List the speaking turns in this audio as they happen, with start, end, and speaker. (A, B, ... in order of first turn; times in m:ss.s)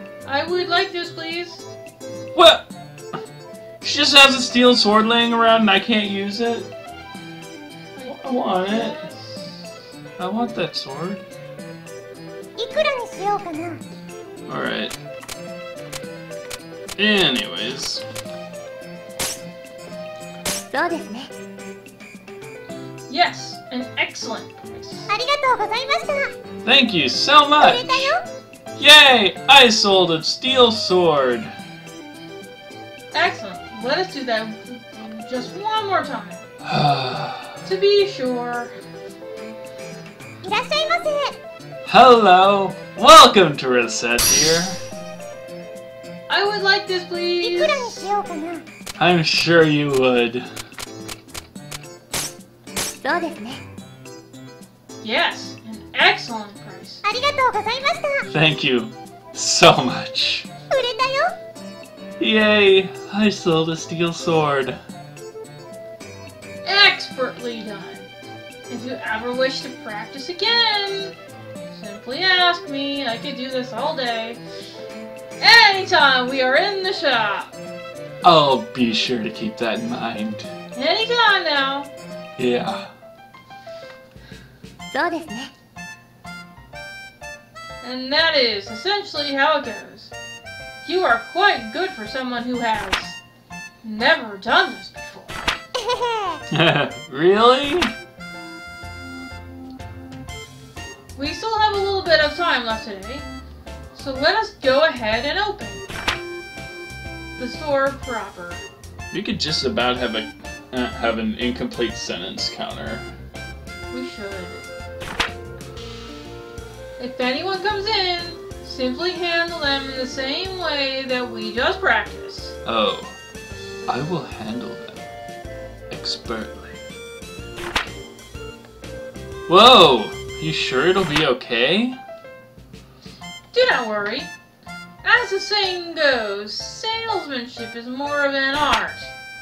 0:00.2-0:01.7 A
0:02.3-0:02.7 B
0:03.8-0:06.7 B
0:08.0-0:09.6 A
0:08.1-0:09.0 B
0:10.2-0:11.2 B
0:12.6-0:13.8 C
0:14.5-0:15.0 B
0:17.0-0:18.0 B
0:20.7-0:21.3 C
0:23.1-0:25.1 A
0:25.1-0:26.3 C
0:26.6-0:28.2 B
0:27.6-0:28.2 C
0:28.8-0:31.5 B
0:33.1-0:36.4 A
0:36.6-0:37.6 B
0:37.6-0:38.7 A
0:40.4-0:41.4 C
0:41.8-0:44.8 B
0:46.3-0:48.1 A
0:47.4-0:48.6 C
0:49.0-0:50.4 B
0:53.0-0:53.6 C
0:55.0-0:57.0 A
0:57.0-0:58.2 C
0:58.3-1:00.5 B
1:00.7-1:01.3 C
1:02.2-1:04.8 B
1:06.6-1:08.1 A
1:08.7-1:11.2 A
1:11.7-1:14.4 A
1:15.4-1:17.5 A
1:18.2-1:20.5 B
1:20.8-1:21.9 A
1:22.4-1:22.9 B
1:24.9-1:25.5 C
1:27.8-1:30.2 A
1:30.8-1:33.2 A
1:33.8-1:35.4 A
1:35.8-1:36.4 C
1:36.5-1:37.9 B
1:41.2-1:43.3 A
1:43.9-1:45.9 A
1:47.4-1:48.6 A
1:49.1-1:53.1 B
1:53.9-1:54.7 A
1:57.0-2:02.6 A
2:02.6-2:03.2 B
2:03.9-2:05.1 B
2:05.9-2:06.8 B
2:09.5-2:12.0 B
2:13.5-2:14.3 A
2:15.0-2:19.1 A